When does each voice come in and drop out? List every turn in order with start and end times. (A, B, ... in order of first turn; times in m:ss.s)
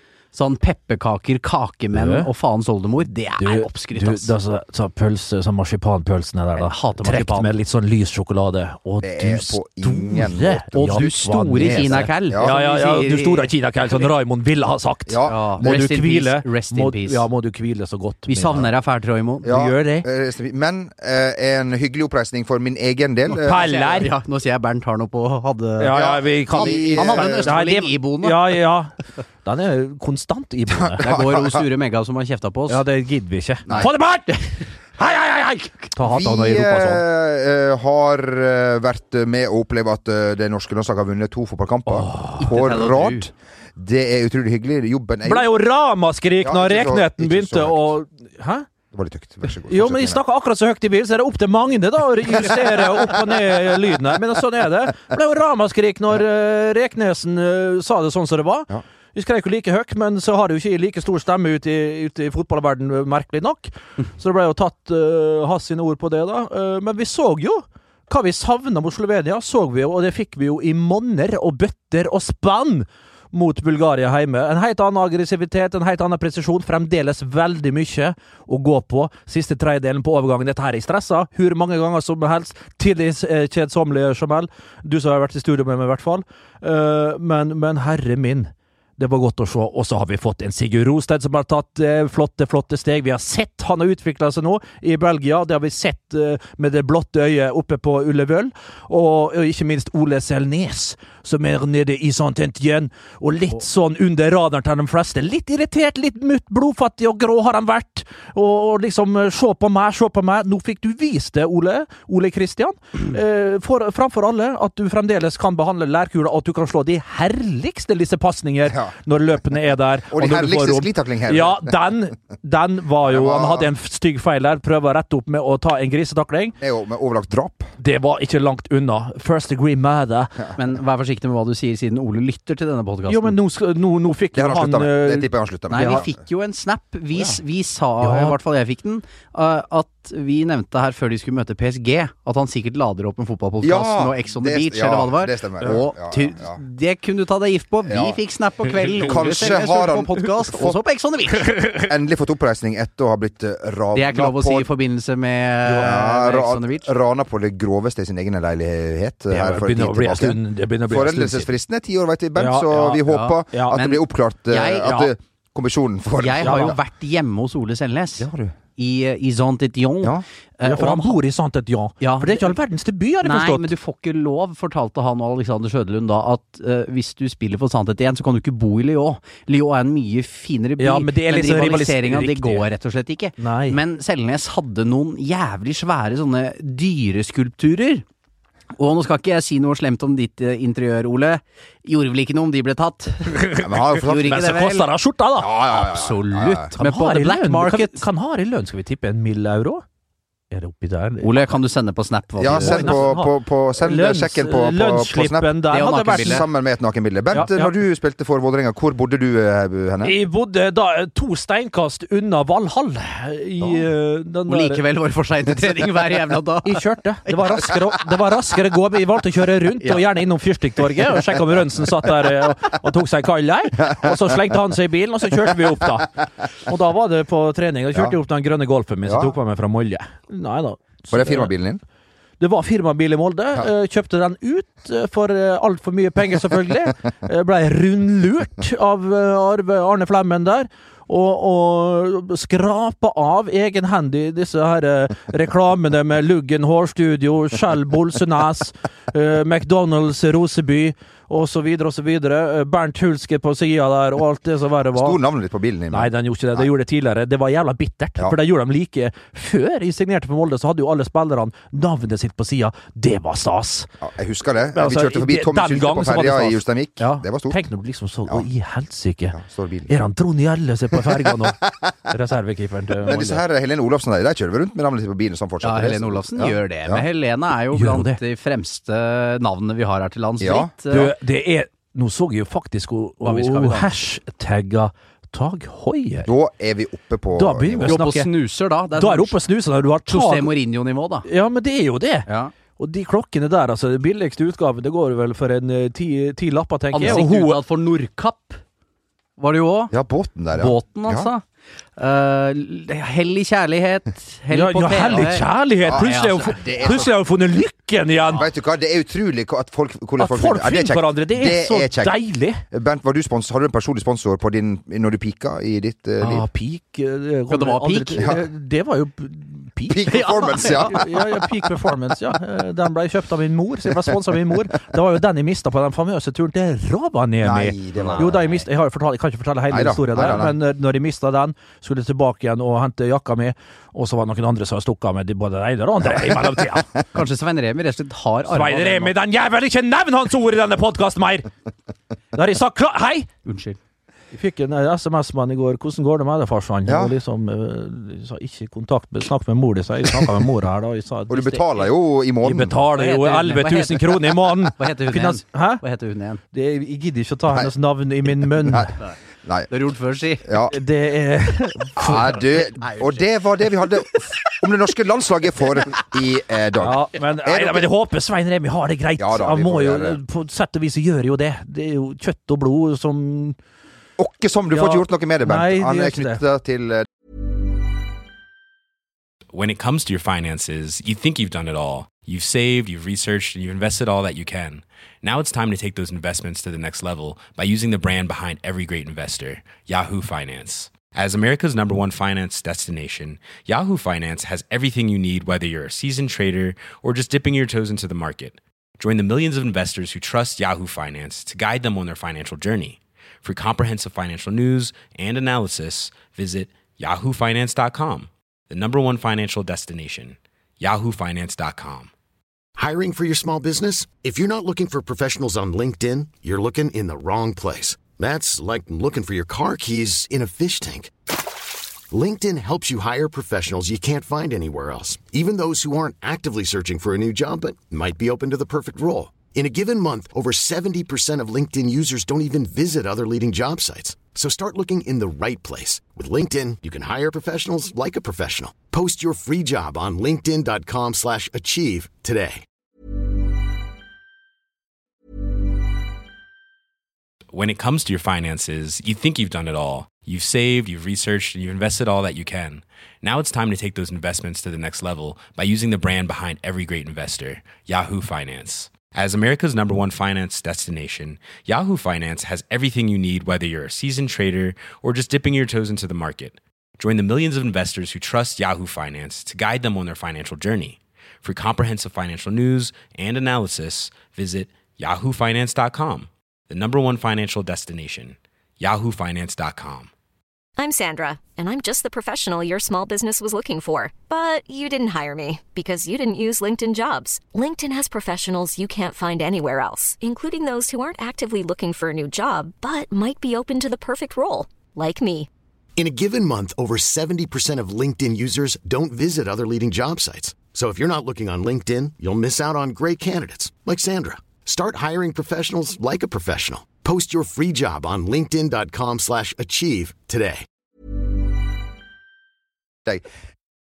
0:00.3-0:04.3 A
0:01.9-0:02.3 B
0:03.4-0:18.7 B
0:06.6-0:07.5 A
0:09.0-0:11.0 C
0:10.7-0:14.1 A
0:11.6-0:12.6 C
0:15.1-0:15.6 C
0:15.2-0:17.2 A
0:18.3-0:19.5 A
0:19.4-0:23.7 C
0:19.4-0:20.1 B
0:23.4-0:28.6 A
0:23.4-0:24.1 B
0:25.8-0:31.0 B
0:25.9-0:27.6 C
0:30.7-0:31.7 C
0:31.0-0:32.8 A
0:32.7-0:37.0 B
0:33.7-0:33.9 C
0:36.0-0:45.5 C
0:41.9-0:42.5 B
0:42.4-0:43.3 A
0:45.2-0:48.6 B
0:46.4-0:47.9 C
0:48.9-0:50.2 C
0:49.7-2:06.6 B
1:58.7-1:58.9 C
2:00.1-2:01.8 C
2:03.0-2:03.7 C
2:06.6-2:07.7 C
2:07.8-2:10.3 B
2:10.5-2:13.4 A
2:13.1-2:16.0 B
2:14.3-2:16.2 C
2:15.7-2:31.7 A
2:17.1-2:17.4 C
2:18.0-2:18.4 B
2:23.6-2:26.6 C
2:27.8-2:28.2 C
2:28.8-2:30.8 C
2:29.0-2:29.6 B
2:31.8-2:34.7 C
2:33.9-2:36.9 A
2:35.6-2:36.0 B
2:35.8-2:46.8 C
2:39.3-2:41.5 B
2:42.4-2:43.8 B
2:43.0-2:45.1 A
2:46.2-2:51.2 A
2:46.4-2:46.8 B
2:48.2-2:48.6 C
2:50.6-2:53.7 B
2:52.0-2:52.5 A
2:53.2-3:08.0 A
3:00.8-3:02.7 B
3:03.4-3:03.8 B
3:08.8-3:14.9 A
3:13.3-3:15.5 B
3:13.6-3:14.5 C
3:15.4-3:16.7 C
3:15.7-3:18.0 A
3:16.8-3:19.8 B
3:20.5-3:21.4 B
3:21.2-3:23.0 A
3:22.4-3:30.1 C
3:22.5-3:26.5 B
3:25.7-3:26.4 A
3:27.3-3:27.7 B
3:30.0-3:34.8 B
3:34.5-3:37.8 A
3:36.6-3:51.5 B
3:39.8-3:40.1 A
3:49.0-3:49.4 C
3:51.1-3:51.8 C
3:52.4-4:15.2 B
4:14.9-4:16.7 C
4:15.9-4:23.9 B
4:24.0-4:27.6 C
4:24.7-4:29.4 B
4:29.3-4:30.0 C
4:29.9-4:33.4 B
4:30.9-4:31.7 C
4:33.0-4:37.0 C
4:35.6-4:41.1 A
4:37.7-4:38.2 B
4:40.4-4:41.1 C
4:40.9-4:46.3 B
4:43.2-4:43.9 A
4:46.2-4:48.0 C
4:47.3-4:48.3 B
4:47.8-4:49.4 A
4:49.0-4:50.5 B
4:50.1-4:51.2 A
4:51.2-4:52.3 B
4:52.2-4:52.5 A
4:52.8-4:57.6 B
4:56.9-4:58.6 A
4:59.4-4:59.9 A
4:59.9-5:01.3 C
5:00.5-5:01.4 A
5:02.0-5:07.1 A
5:04.5-5:08.4 B
5:05.8-5:07.1 C
5:08.3-5:16.4 C
5:10.2-5:12.6 B
5:16.2-5:37.0 B
5:17.5-5:18.3 A
5:19.9-5:21.1 C
5:20.2-5:21.0 A
5:27.4-5:28.6 C
5:28.0-5:28.4 A
5:29.7-5:30.6 C
5:37.1-5:39.1 A
5:38.5-5:41.5 B
5:42.3-5:43.3 B
5:43.4-5:43.8 A
5:44.3-5:51.8 B
5:46.8-5:47.1 C
5:51.3-5:52.8 C
5:52.4-5:55.8 B
5:52.9-5:56.4 A
5:56.5-5:59.0 B
5:58.5-5:58.9 C
5:59.4-5:59.7 C
5:59.7-6:00.5 A
6:00.4-6:00.8 C
6:00.7-6:02.4 B
6:02.0-6:07.9 C
6:02.8-6:03.2 A
6:06.8-6:13.6 B
6:09.2-6:10.2 C
6:14.2-6:17.1 C
6:14.7-6:16.4 B
6:19.5-6:52.1 D
6:52.8-7:01.1 E
7:02.1-7:22.6 E
7:27.5-8:00.1 D
8:00.8-8:15.5 F
8:16.0-8:30.6 E